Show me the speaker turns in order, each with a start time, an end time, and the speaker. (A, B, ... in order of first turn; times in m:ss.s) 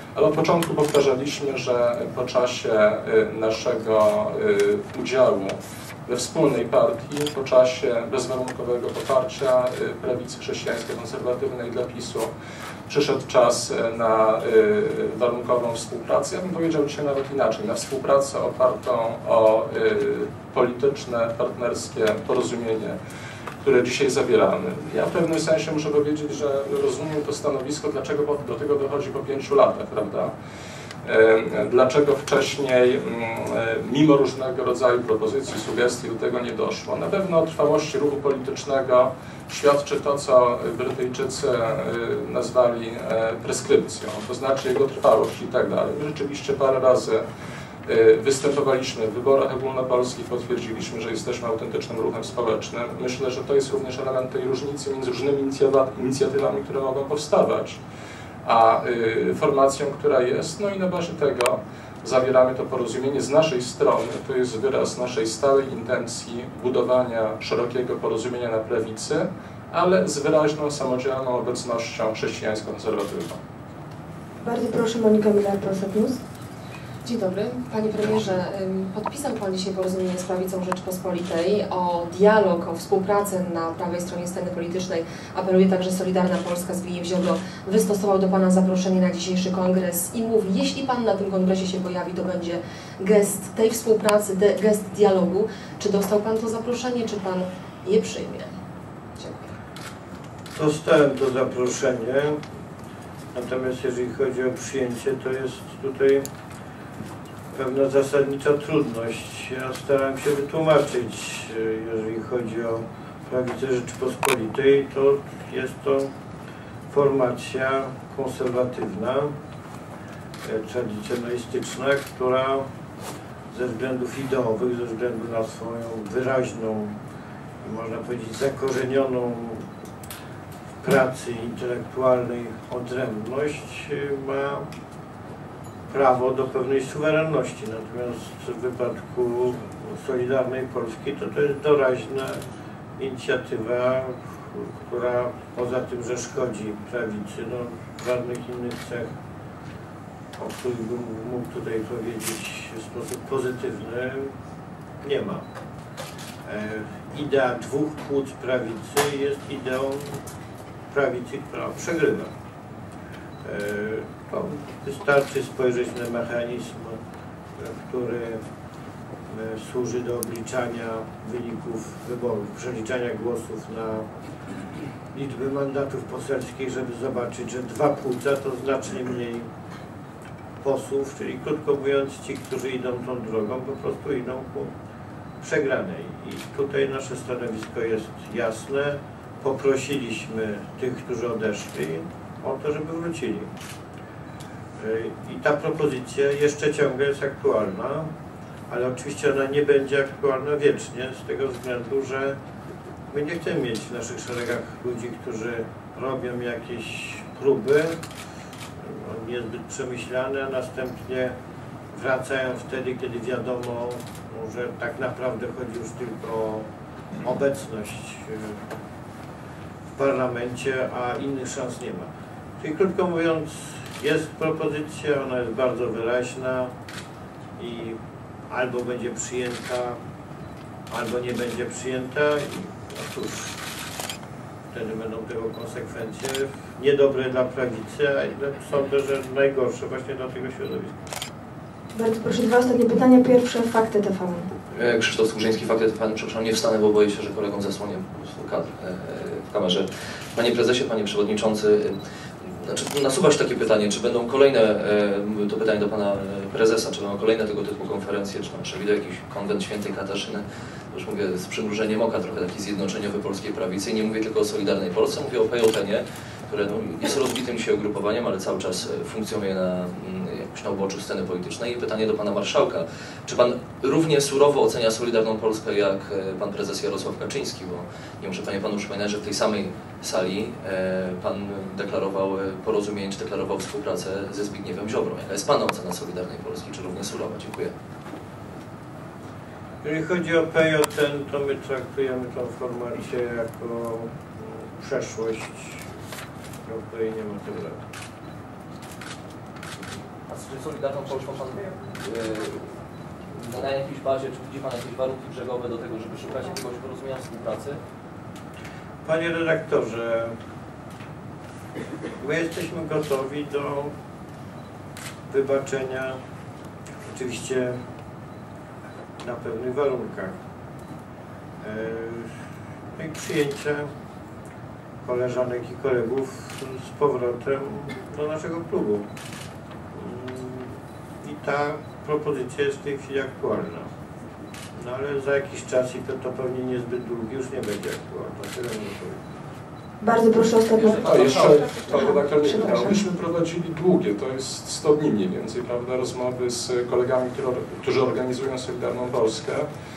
0:00.2-0:12.3 A
0:12.9-0:23.0 A
0:23.6-0:30.3 A
0:31.0-0:47.2 A
0:47.9-0:57.8 A
0:58.4-1:13.4 A
1:14.4-1:16.2 B
1:17.0-1:38.5 C
1:40.6-1:42.4 D
1:43.3-1:46.2 D
1:47.5-1:56.1 D
1:56.9-1:59.3 D
2:00.4-2:02.7 D
2:03.5-2:07.0 D
2:07.6-2:09.6 D
2:10.8-2:14.7 D
2:15.9-2:22.4 D
2:23.0-2:29.1 D
2:30.4-2:34.3 D
2:35.0-2:35.4 D
2:36.5-2:40.2 D
2:40.9-2:42.3 D
2:43.4-2:47.0 D
2:47.6-2:48.4 D
2:49.3-2:54.1 D
2:55.1-2:59.5 D
3:00.6-3:04.7 D
3:05.4-3:13.5 D
3:14.8-3:18.1 D
3:18.7-3:22.4 D
3:23.1-3:28.0 D
3:28.8-3:31.3 D
3:31.9-3:36.7 D
3:37.2-3:38.6 D
3:40.0-3:46.7 D
3:47.6-3:48.0 D
3:48.5-3:50.0 D
3:50.9-3:53.6 D
3:54.7-4:00.9 D
4:02.0-4:04.5 B
4:04.7-4:47.7 E
4:49.8-4:55.9 D
4:56.6-4:57.8 D
5:00.3-5:02.7 E
5:03.4-5:07.8 E
5:09.0-5:10.3 D
5:12.2-5:13.9 D
5:15.3-5:16.2 D
5:17.1-5:17.8 D
5:19.2-5:20.4 D
5:21.6-5:22.3 D
5:23.0-5:23.9 D
5:25.0-5:29.1 D
5:29.9-5:33.9 D
5:34.8-5:39.2 D
5:40.0-5:41.0 B
5:40.7-5:42.0 E
5:41.0-5:49.7 A
5:42.0-5:42.6 B